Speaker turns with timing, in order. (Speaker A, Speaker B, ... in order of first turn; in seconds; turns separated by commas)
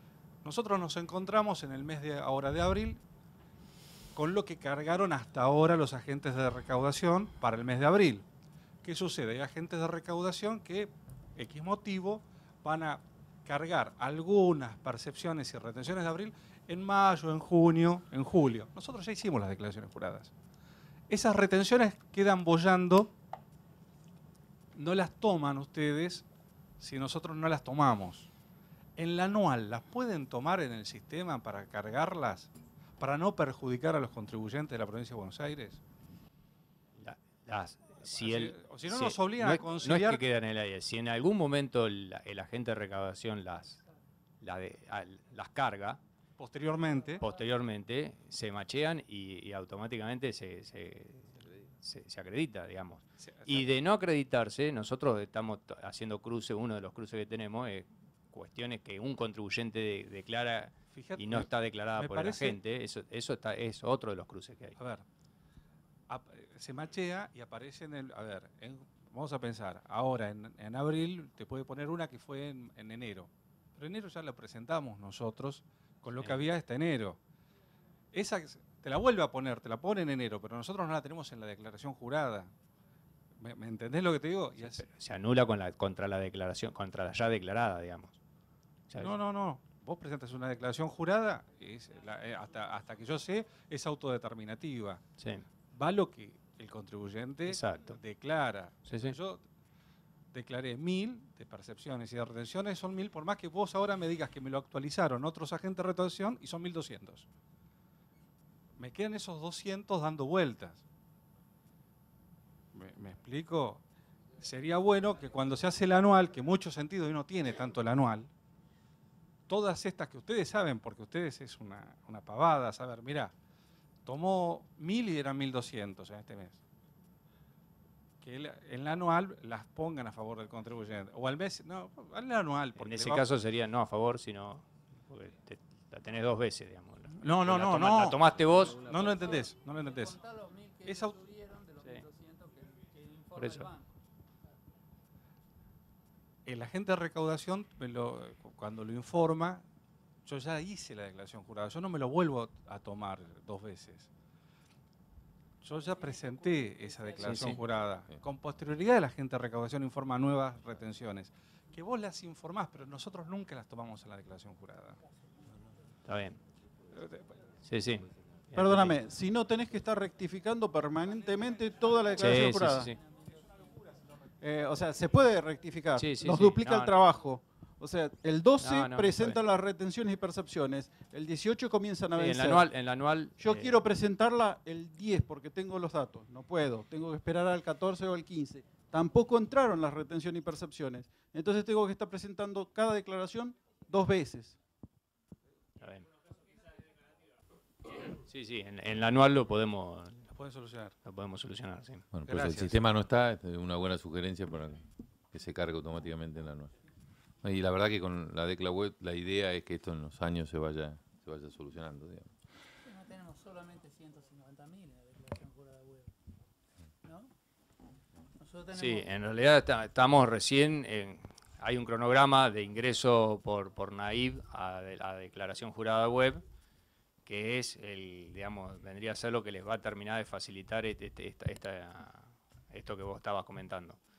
Speaker A: 0.4-3.0, Speaker A: 4.1-8.2, Speaker A: 8.8-20.3, Speaker A: 21.1-23.1, Speaker A: 24.7-26.2, Speaker A: 26.8-28.3, Speaker A: 29.0-35.8, Speaker B: 37.0-43.8, Speaker A: 38.0-40.2, Speaker B: 44.4-46.0, Speaker A: 46.4-47.2, Speaker B: 47.1-64.8, Speaker A: 53.2-53.7, Speaker A: 60.9-62.6, Speaker A: 64.8-65.0, Speaker A: 66.1-77.2, Speaker B: 76.2-76.4, Speaker A: 78.1-82.5, Speaker A: 83.4-84.8, Speaker B: 84.6-88.2, Speaker B: 88.9-89.2, Speaker A: 88.9-95.0, Speaker B: 95.2-95.5, Speaker A: 95.7-99.4, Speaker B: 97.4-98.0, Speaker B: 98.8-99.2, Speaker A: 100.3-107.3, Speaker A: 108.8-110.8, Speaker A: 112.7-113.8, Speaker A: 114.4-118.3, Speaker A: 119.5-123.3, Speaker A: 124.0-126.6, Speaker A: 128.2-133.3, Speaker B: 132.8-139.3, Speaker A: 137.1-140.2, Speaker C: 139.9-143.8, Speaker A: 140.8-141.2, Speaker B: 143.3-143.7, Speaker A: 146.4-149.6, Speaker A: 150.2-154.1, Speaker A: 155.6-165.0, Speaker B: 157.2-157.6, Speaker B: 166.0-166.4, Speaker A: 166.9-167.3, Speaker B: 167.6-169.0, Speaker D: 168.5-172.9, Speaker B: 172.2-173.0, Speaker D: 174.4-182.7, Speaker B: 176.0-176.9, Speaker B: 178.6-179.4, Speaker B: 182.2-183.7, Speaker D: 183.4-194.5, Speaker B: 195.8-196.1, Speaker B: 197.9-200.3, Speaker A: 200.3-200.9, Speaker B: 201.0-202.1, Speaker E: 202.1-206.7, Speaker A: 202.2-202.8, Speaker E: 207.4-212.3, Speaker C: 212.9-216.1, Speaker C: 218.4-219.0, Speaker B: 218.7-226.4, Speaker B: 227.2-234.0